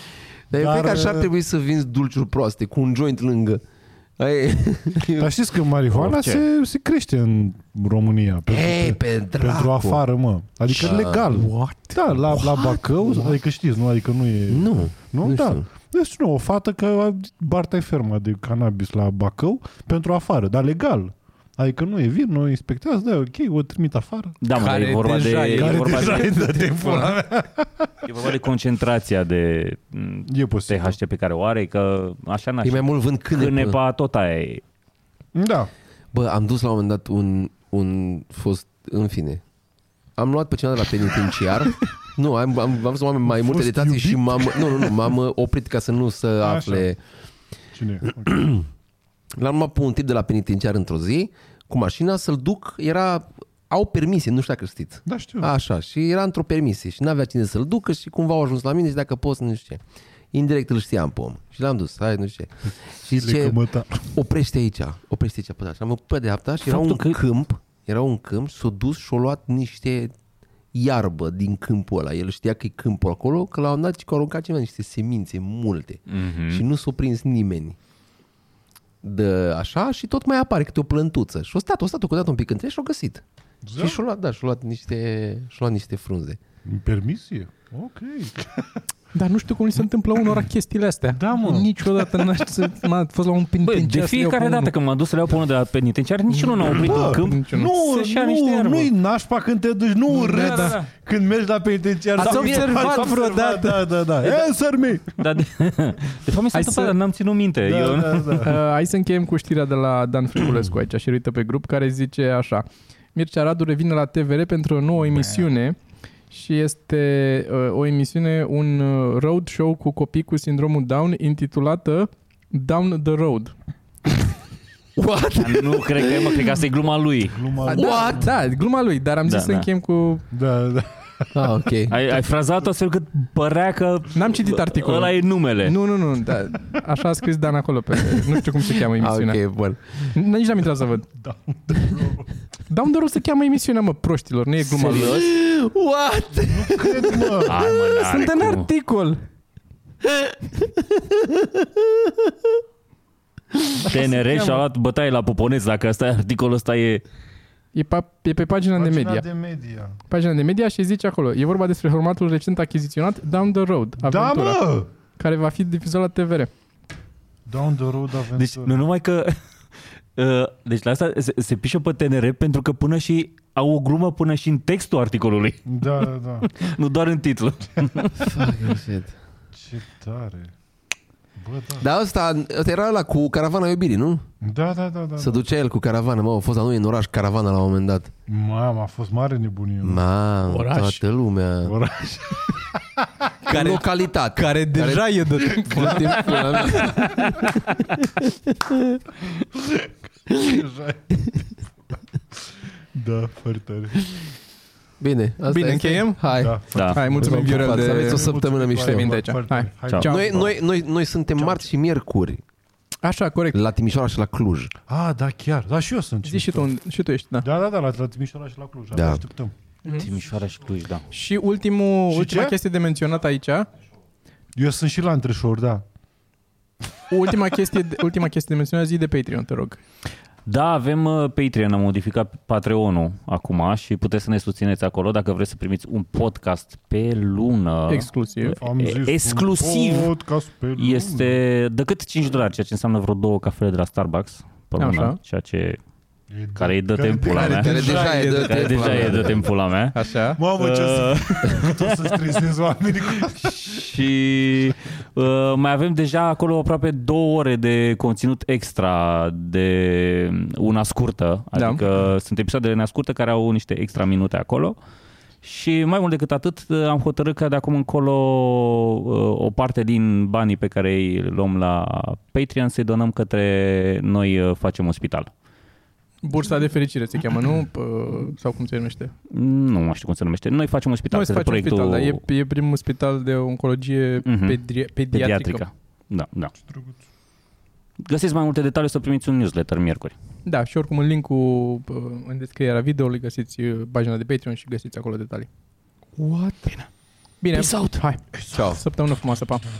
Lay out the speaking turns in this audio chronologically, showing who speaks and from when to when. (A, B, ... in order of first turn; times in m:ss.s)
0:00.5-0:03.6 A
0:00.5-0:01.3 B
0:04.2-0:05.3 A
0:05.2-0:24.4 B
0:05.9-0:06.4 C
0:08.5-0:10.0 A
0:10.7-0:11.4 A
0:11.3-0:12.0 D
0:12.3-0:13.3 A
0:14.5-0:15.6 A
0:24.4-0:26.3 C
0:24.5-0:27.2 D
0:25.5-0:28.1 B
0:28.0-0:34.6 C
0:30.3-0:31.0 B
0:32.6-0:33.8 A
0:35.3-0:35.7 B
0:36.1-0:39.4 A
0:40.2-0:47.0 A
0:43.2-0:45.1 B
0:46.4-0:46.9 B
0:47.7-0:48.6 B
0:48.3-0:48.6 A
0:49.4-0:59.8 A
0:55.0-0:55.5 B
1:00.3-1:03.6 A
1:03.0-1:04.1 B
1:04.1-1:10.1 A
1:06.6-1:07.2 C
1:10.7-1:17.8 A
1:16.1-1:16.6 C
1:19.0-1:23.2 A
1:23.6-1:24.0 B
1:23.8-1:26.4 A
1:26.6-1:28.8 B
1:29.1-1:34.7 D
1:31.1-1:32.3 B
1:33.6-1:38.9 C
1:36.3-1:37.7 D
1:36.7-1:45.2 B
1:40.1-1:40.8 D
1:40.2-1:40.9 C
1:42.2-1:43.9 D
1:42.2-1:43.1 C
1:45.2-1:48.5 C
1:46.5-1:46.9 D
1:47.6-1:48.6 B
1:48.4-1:55.8 D
1:56.3-2:03.5 D
2:05.0-2:06.6 A
2:05.4-2:07.4 C
2:07.3-2:08.3 B
2:07.7-2:10.2 D
2:07.7-2:08.3 A
2:09.3-2:09.6 C
2:10.3-2:11.6 B
2:11.3-2:11.9 A
2:11.9-2:15.8 C
2:14.1-2:19.4 D
2:18.9-2:19.8 A
2:20.0-2:21.1 D
2:21.1-2:22.3 B
2:22.7-2:25.2 D
2:24.7-2:25.2 C
2:24.9-2:27.5 A
2:26.4-2:27.6 B
2:27.4-2:28.7 C
2:27.9-2:29.2 D
2:30.1-2:32.3 A
2:33.8-2:34.6 B
2:33.8-2:37.0 C
2:34.2-2:34.5 D
2:37.7-2:39.2 D
2:38.8-2:40.0 B
2:40.1-2:44.6 D
2:44.0-2:44.9 B
2:45.2-2:46.5 D
2:47.5-2:48.8 B
2:48.4-2:49.3 C
2:50.2-2:55.8 C
2:55.6-2:56.5 B
2:56.4-2:58.4 C
2:58.2-2:59.1 A
2:59.5-3:00.5 B
3:01.4-3:01.9 B
3:01.8-3:04.2 A
3:04.4-3:05.4 B
3:05.2-3:08.1 A
3:08.3-3:10.0 B
3:09.8-3:11.9 A
3:10.5-3:11.0 D
3:11.6-3:13.3 B
3:13.4-3:17.6 D
3:13.5-3:17.6 A
3:15.7-3:17.3 B
3:19.5-3:21.3 B
3:20.3-3:20.6 A
3:22.3-3:24.2 B
3:25.0-3:29.2 A
3:25.5-3:30.4 D
3:26.3-3:30.6 B
3:26.7-3:27.0 C
3:29.9-3:30.1 C
3:30.0-3:32.4 A
3:31.4-3:31.6 B
3:33.0-3:33.6 D
3:33.5-3:34.7 A
3:34.9-3:36.7 B
3:36.2-3:37.5 D
3:37.4-3:39.5 B
3:38.9-3:39.2 A
3:39.9-3:41.0 C
3:41.1-3:43.7 D
3:42.1-3:42.6 B
3:44.5-3:45.8 B
3:47.1-3:49.8 D
3:50.4-4:00.1 C
3:57.9-3:58.6 D
3:58.5-4:01.4 B
4:00.8-4:05.8 C
4:04.8-4:05.2 D
4:06.3-4:09.4 B
4:06.6-4:10.0 C
4:07.3-4:09.5 A
4:07.6-4:08.9 D
4:09.9-4:10.4 D
4:10.4-4:14.0 B
4:10.6-4:12.1 C
4:13.3-4:24.8 C
4:21.5-4:21.8 D
4:25.4-4:35.3 C
4:36.2-4:39.1 D
4:39.3-4:42.2 C
4:41.1-4:45.6 D
4:44.2-4:44.6 C
4:45.1-4:46.5 C
4:46.6-4:47.0 B
4:48.0-4:50.1 C
4:50.4-4:55.5 D
4:56.2-4:56.8 A
4:57.4-4:59.6 D
4:58.5-4:58.8 A